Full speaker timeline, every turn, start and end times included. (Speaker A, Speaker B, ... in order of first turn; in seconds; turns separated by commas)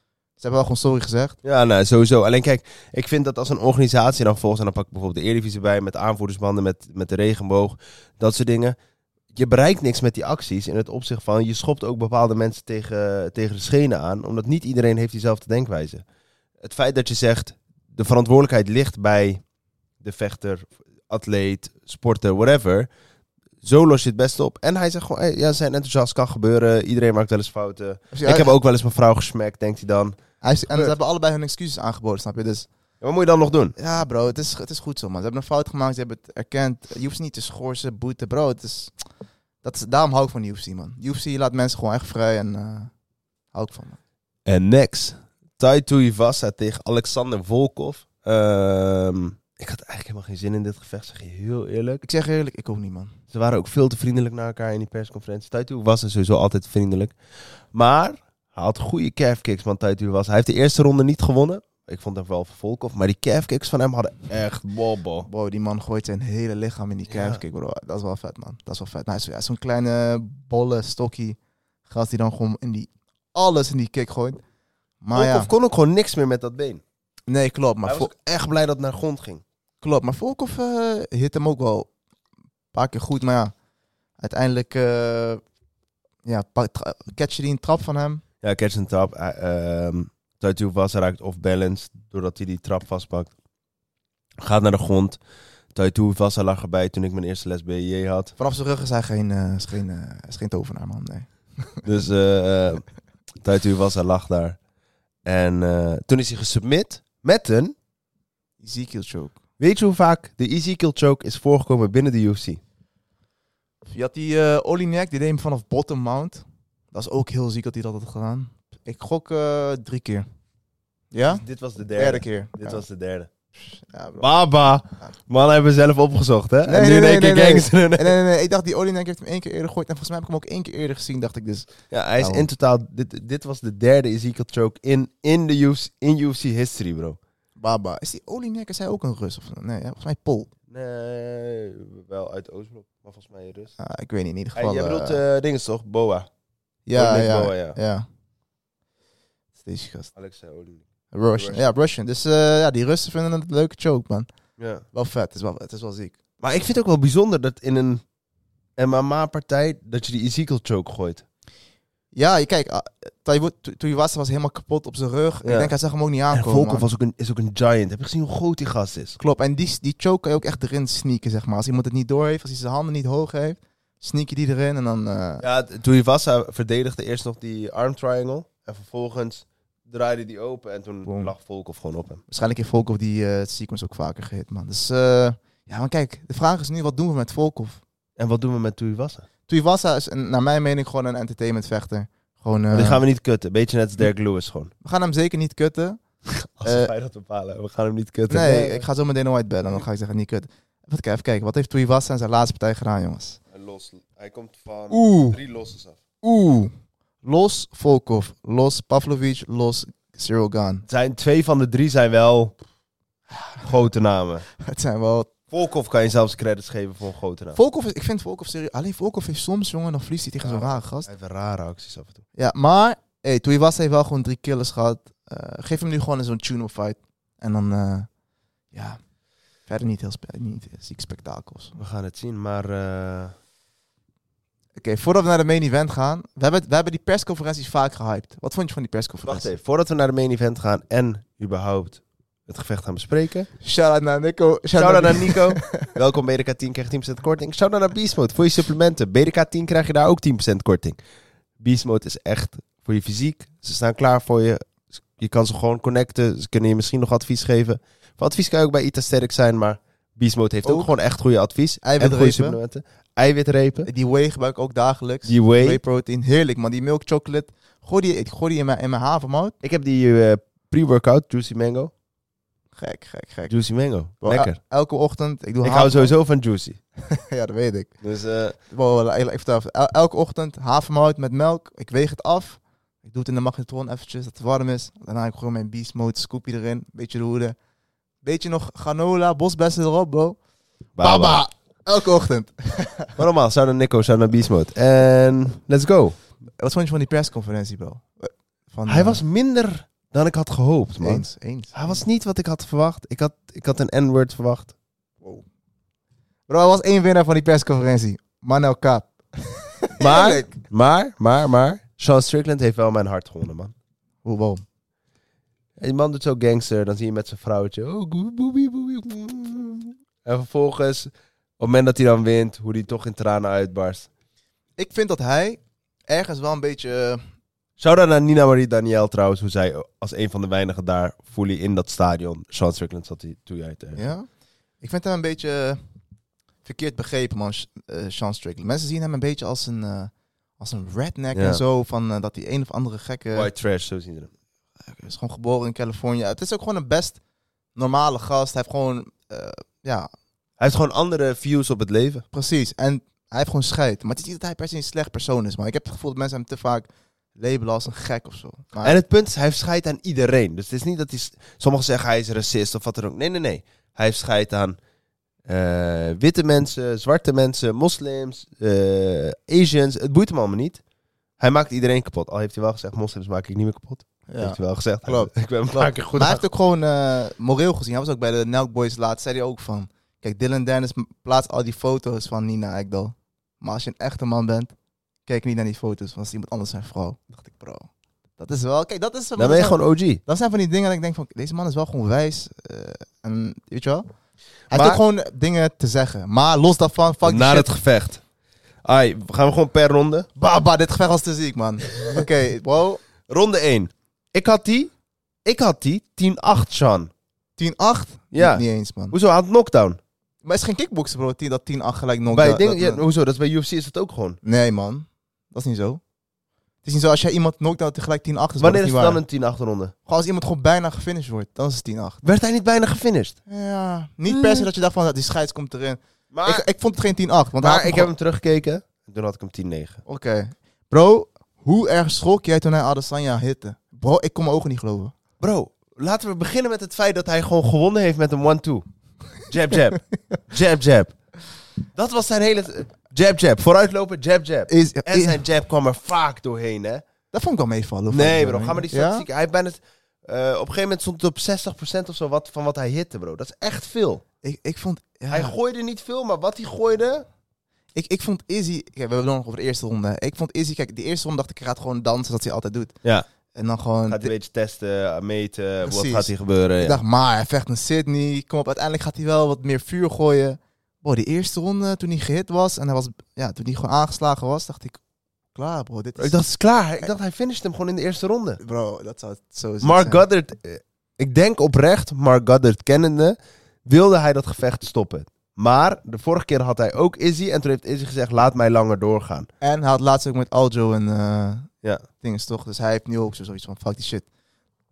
Speaker A: 0.4-1.4, Speaker B: 1.4-8.8, Speaker B: 9.3-16.0, Speaker B: 16.6-19.4, Speaker B: 20.0-22.9, Speaker B: 23.6-30.9, Speaker A: 28.1-28.5, Speaker A: 30.4-32.7, Speaker B: 33.0-33.8, Speaker A: 33.8-38.9, Speaker A: 39.6-42.9, Speaker A: 43.5-44.0, Speaker B: 44.5-52.0, Speaker A: 52.0-53.2, Speaker B: 53.3-57.1, Speaker B: 57.7-65.3, Speaker A: 65.3-74.4, Speaker B: 67.1-67.4, Speaker A: 75.0-75.5, Speaker B: 75.1-76.8, Speaker A: 77.3-78.1, Speaker B: 77.8-79.4, Speaker A: 79.8-81.9, Speaker A: 82.7-83.5, Speaker A: 84.2-85.4, Speaker A: 86.2-88.2, Speaker B: 88.4-93.3, Speaker B: 94.4-95.2, Speaker B: 95.7-98.3, Speaker A: 98.4-101.8, Speaker B: 101.8-102.8, Speaker B: 103.4-104.6, Speaker B: 105.2-107.7, Speaker A: 108.6-109.4, Speaker B: 109.6-112.6, Speaker A: 113.9-120.2, Speaker A: 121.1-121.4, Speaker B: 121.2-123.3, Speaker A: 122.0-122.8, Speaker A: 123.6-124.3, Speaker B: 124.2-128.2, Speaker A: 126.6-132.5, Speaker B: 131.9-137.2, Speaker A: 137.6-140.5, Speaker B: 140.7-143.7, Speaker A: 143.8-145.2, Speaker B: 144.5-146.3, Speaker A: 146.9-148.0, Speaker B: 146.9-147.8, Speaker A: 149.6-150.1, Speaker B: 150.2-150.8, Speaker A: 151.1-154.3, Speaker B: 151.4-151.6, Speaker B: 154.6-154.8, Speaker A: 154.9-156.2, Speaker B: 156.4-158.0, Speaker B: 158.8-161.2, Speaker A: 162.1-166.8, Speaker B: 165.4-165.7, Speaker B: 166.3-169.2, Speaker A: 169.2-175.4, Speaker B: 175.4-182.2, Speaker A: 181.1-181.3, Speaker A: 182.3-187.8, Speaker B: 188.2-189.2, Speaker A: 189.5-193.0, Speaker B: 192.7-194.7, Speaker A: 194.8-196.0, Speaker B: 196.3-198.8, Speaker A: 196.6-196.9, Speaker A: 198.3-203.4, Speaker B: 203.5-206.0, Speaker A: 204.9-205.4, Speaker A: 206.2-206.7, Speaker A: 207.2-210.8, Speaker B: 210.9-212.6, Speaker B: 213.6-214.4, Speaker A: 214.6-215.3, Speaker B: 215.5-217.6, Speaker A: 217.5-221.1, Speaker B: 220.4-222.2, Speaker A: 222.4-228.1, Speaker A: 228.7-229.0, Speaker A: 229.7-231.8, Speaker B: 231.8-233.4, Speaker A: 234.8-239.5, Speaker B: 239.2-243.5, Speaker A: 243.6-245.9, Speaker B: 244.8-251.0, Speaker B: 251.6-263.9, Speaker A: 260.6-260.9, Speaker A: 261.8-262.6, Speaker A: 263.9-269.5, Speaker B: 265.2-265.8, Speaker B: 269.6-271.9, Speaker A: 272.8-273.5, Speaker B: 273.5-274.6, Speaker A: 274.2-276.1, Speaker B: 275.6-276.8, Speaker A: 277.0-277.9, Speaker B: 278.0-278.6, Speaker A: 278.7-287.6, Speaker A: 288.2-290.4, Speaker B: 291.0-291.4, Speaker A: 291.0-293.2, Speaker B: 293.2-296.2, Speaker A: 296.6-299.2, Speaker B: 298.9-304.7, Speaker A: 301.0-302.0, Speaker A: 306.5-310.6, Speaker B: 310.0-313.7, Speaker A: 314.2-314.6, Speaker B: 315.8-324.1, Speaker A: 324.8-327.2, Speaker B: 327.8-334.0, Speaker A: 333.9-334.3, Speaker A: 334.8-335.8, Speaker A: 336.6-343.5, Speaker B: 341.3-341.6, Speaker B: 343.3-344.3, Speaker A: 344.9-347.2, Speaker A: 347.7-350.1, Speaker B: 350.6-352.2, Speaker A: 352.3-359.0, Speaker B: 358.8-364.8, Speaker B: 365.4-370.8, Speaker B: 371.4-376.4, Speaker A: 374.3-375.3, Speaker A: 376.1-384.7, Speaker A: 385.2-394.1, Speaker B: 389.4-390.2, Speaker B: 394.7-395.0, Speaker A: 394.7-397.7, Speaker B: 397.2-398.2, Speaker B: 398.8-400.3, Speaker A: 400.4-403.0, Speaker B: 403.3-404.9, Speaker B: 405.4-407.1, Speaker A: 407.6-409.1, Speaker B: 408.3-410.0, Speaker A: 410.4-413.0, Speaker B: 412.3-414.4, Speaker A: 414.4-416.0, Speaker A: 416.8-419.2, Speaker B: 418.6-419.9, Speaker A: 420.1-422.2, Speaker B: 422.2-423.4, Speaker A: 423.5-428.1, Speaker B: 424.3-424.7, Speaker B: 426.3-426.6, Speaker B: 427.6-430.0, Speaker A: 430.1-435.1, Speaker B: 435.4-438.9, Speaker B: 439.5-441.1, Speaker B: 441.9-447.0, Speaker A: 444.7-445.4, Speaker A: 447.3-449.2, Speaker B: 448.1-454.2, Speaker A: 454.4-455.6, Speaker B: 455.3-457.2, Speaker A: 457.9-462.9, Speaker A: 463.5-464.3, Speaker B: 464.1-467.0, Speaker A: 465.9-475.0, Speaker A: 475.5-476.4, Speaker B: 476.2-478.6, Speaker A: 478.6-480.2, Speaker B: 479.8-489.5, Speaker A: 489.6-491.7, Speaker A: 492.2-494.3